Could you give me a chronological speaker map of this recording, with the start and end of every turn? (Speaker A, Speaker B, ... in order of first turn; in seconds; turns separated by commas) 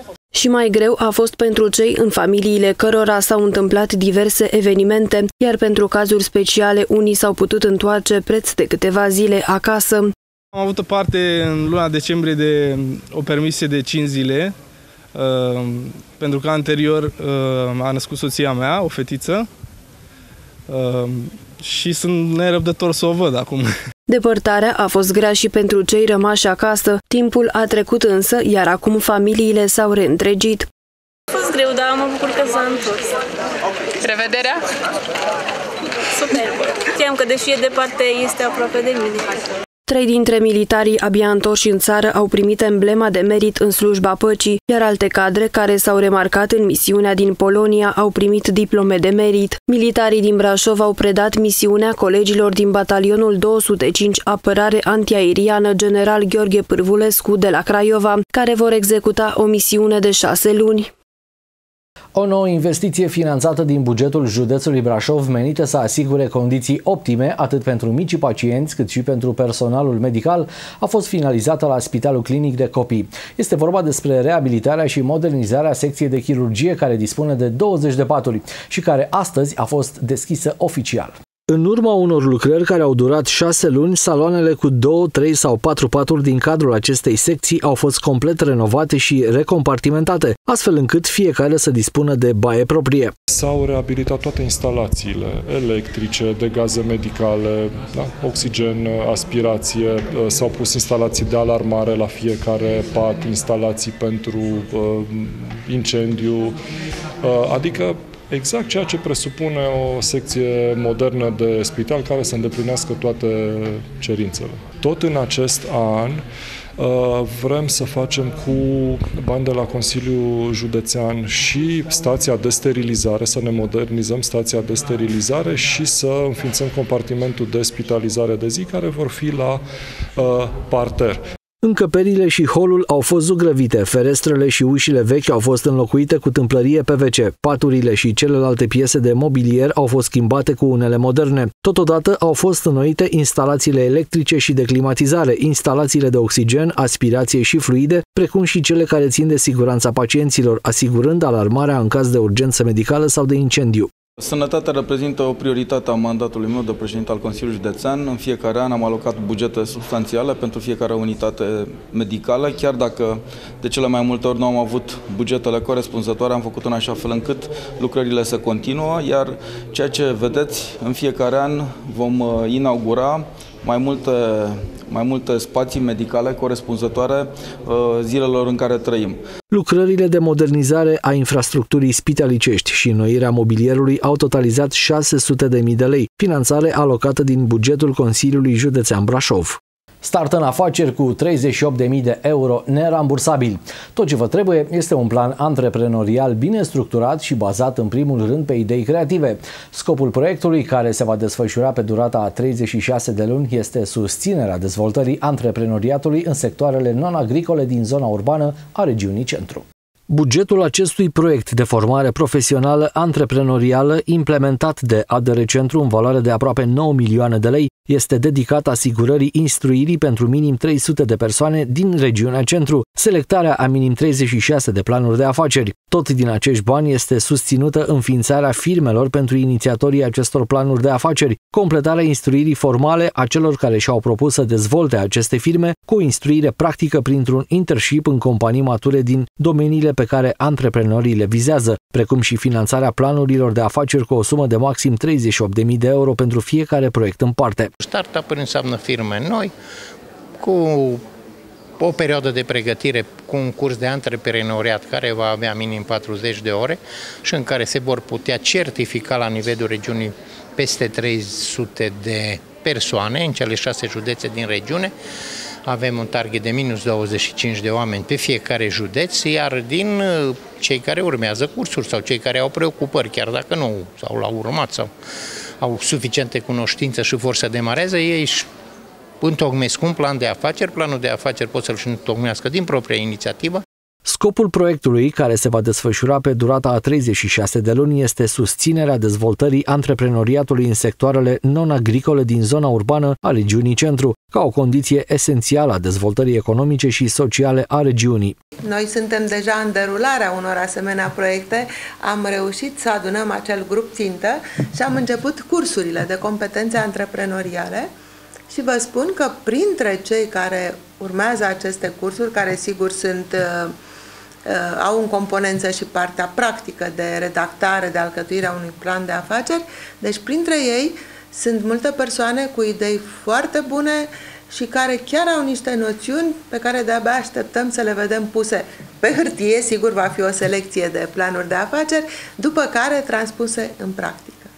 Speaker A: 0.4-10.0, Speaker B: 10.5-14.5, Speaker B: 15.2-19.4, Speaker B: 20.7-23.7, Speaker A: 24.1-30.7, Speaker C: 31.4-33.0, Speaker C: 34.0-34.5, Speaker C: 36.2-39.3, Speaker A: 39.9-60.9, Speaker D: 62.1-93.1, Speaker E: 93.3-106.5, Speaker E: 107.2-116.2, Speaker E: 116.8-129.6, Speaker E: 130.2-131.2, Speaker D: 131.6-153.9, Speaker F: 154.2-179.2, Speaker D: 179.5-247.7, Speaker G: 247.8-249.5, Speaker G: 250.4-251.0, Speaker G: 251.8-264.9, Speaker G: 265.6-274.9, Speaker G: 275.6-278.5, Speaker G: 279.2-283.6, Speaker D: 284.0-298.3, Speaker H: 298.6-307.9, Speaker H: 308.5-313.7, Speaker H: 314.5-334.5